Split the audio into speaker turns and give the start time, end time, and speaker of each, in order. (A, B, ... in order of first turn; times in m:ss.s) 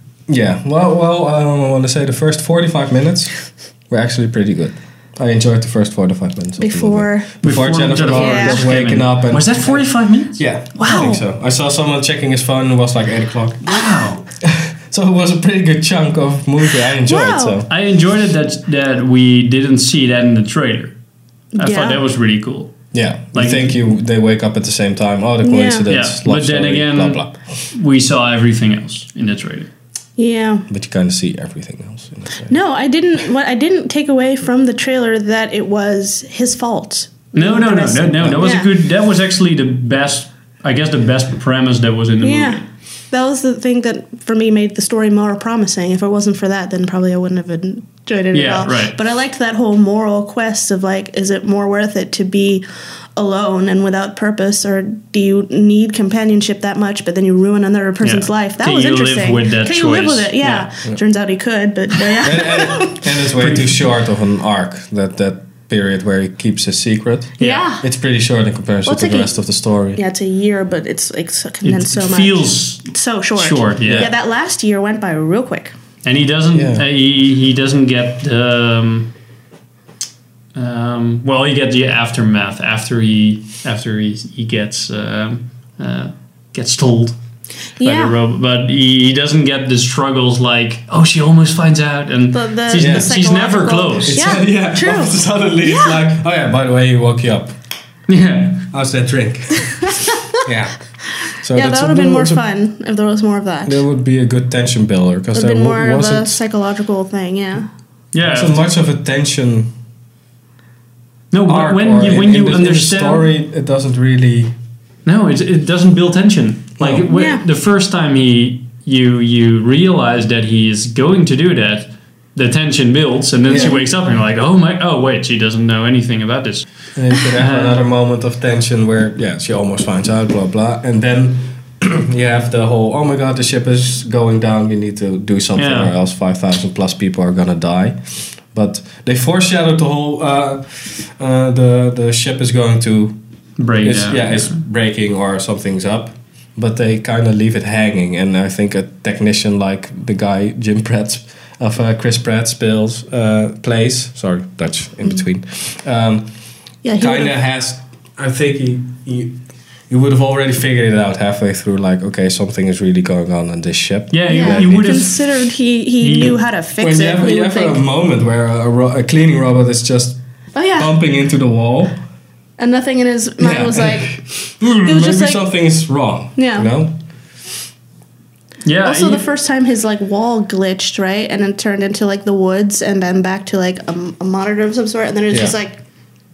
0:00.3-0:03.4 A
0:03.9-0:13.8 A
0:06.6-0:07.3 B
0:07.4-0:11.1 C
0:08.0-0:08.7 B
0:10.8-0:11.2 B
0:13.6-0:14.2 C
0:14.4-0:17.7 A
0:17.0-0:17.6 B
0:17.7-0:20.9 C
0:21.5-0:22.0 B
0:21.6-0:22.8 C
0:22.9-0:27.3 A
0:23.3-0:23.8 C
0:25.4-0:25.9 B
0:25.9-0:29.7 C
0:30.2-0:30.6 B
0:30.7-0:32.5 A
0:32.5-0:38.7 B
0:37.4-0:42.6 C
0:38.2-0:38.5 A
0:42.2-0:52.6 B
0:48.3-0:49.0 C
0:53.2-1:03.1 B
0:58.0-1:00.7 C
1:02.1-1:02.4 C
1:02.2-1:10.0 A
1:03.3-1:03.9 C
1:07.4-1:07.7 C
1:07.4-1:07.8 B
1:08.8-1:09.3 B
1:10.0-1:15.7 B
1:11.6-1:14.1 C
1:13.8-1:14.1 A
1:16.0-1:19.1 C
1:16.5-1:16.8 A
1:20.6-1:27.2 C
1:27.8-1:28.2 B
1:27.8-1:34.4 C
1:32.3-1:36.0 B
1:32.8-1:33.2 A
1:34.1-1:37.5 A
1:38.1-1:38.7 C
1:38.7-1:40.8 A
1:40.0-1:40.4 B
1:41.4-1:42.4 A
1:41.5-1:43.8 B
1:43.7-1:46.4 A
1:45.3-1:47.7 B
1:48.1-1:48.7 C
1:48.2-1:49.7 A
1:51.3-1:53.3 C
1:51.5-1:54.5 A
1:55.1-2:06.6 C
1:56.8-1:57.1 A
1:57.1-1:57.4 B
2:03.5-2:03.8 A
2:03.5-2:03.8 B
2:07.0-2:23.2 A
2:07.3-2:07.8 C
2:15.6-2:15.9 C
2:23.6-2:24.6 C
2:23.8-2:36.3 A
2:36.8-2:37.4 B
2:36.9-2:39.4 A
2:39.9-2:45.0 A
2:44.1-2:46.4 C
2:44.3-2:47.8 B
2:46.8-2:50.2 A
2:50.6-2:51.0 B
2:50.8-2:52.0 A
2:52.6-2:54.1 B
2:53.4-2:56.9 A
2:54.8-2:55.5 B
2:56.4-2:56.7 B
2:58.6-2:59.3 C
2:58.8-3:05.8 B
3:05.3-3:05.6 A